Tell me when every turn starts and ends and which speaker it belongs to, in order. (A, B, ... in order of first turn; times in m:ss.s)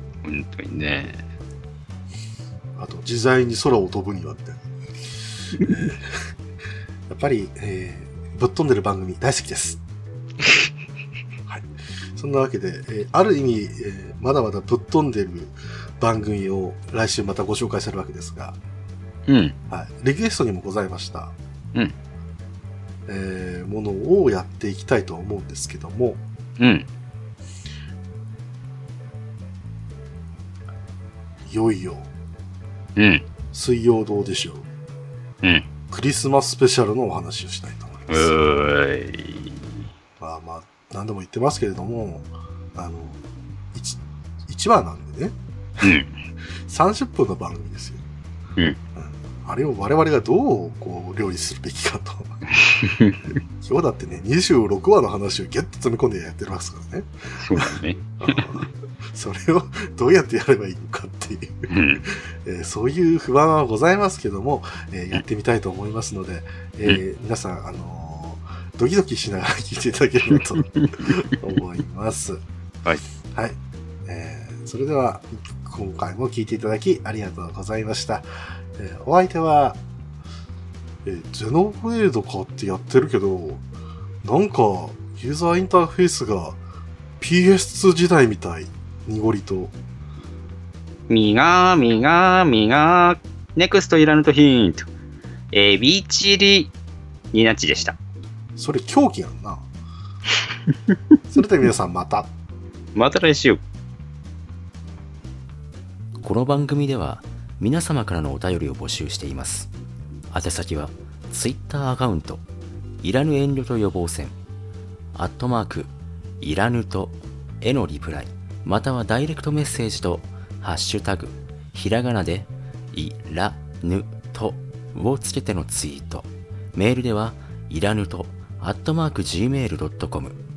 0:00.2-0:01.2 A
0:02.8-0:04.6 B
0:05.6-0:06.3 B
0:07.1-0:09.8 B
0:11.5-0:18.6 B
0:19.3-0:19.6 A
0:19.7-0:21.4 B
0:23.1-0:26.2 B
0:26.6-0:26.9 A
0:31.4-0:32.1 B
0:33.0-0:33.2 A
0:33.5-0:34.7 B
0:35.4-0:35.7 A
0:35.9-0:38.3 B
0:38.1-0:39.9 A
0:40.2-0:43.2 B
0:43.7-0:45.9 B
0:45.8-0:46.1 A
0:46.7-0:48.0 B
0:49.0-0:52.4 B
0:52.5-0:53.3 A
0:53.6-1:12.4 B
0:57.4-0:58.4 A
1:01.7-1:02.0 A
1:10.5-1:10.9 A
1:13.3-1:19.8 B
1:21.0-1:23.6 B
1:24.2-1:26.6 B
1:27.2-1:29.7 B
1:31.1-1:34.9 A
1:35.5-1:36.7 A
1:37.3-1:38.0 A
1:38.6-1:39.7 B
1:41.3-1:42.3 B
1:43.0-1:43.6 A
1:46.2-1:49.7 C
1:50.3-1:52.4 C
1:53.0-1:54.4 C
1:55.1-2:10.4 C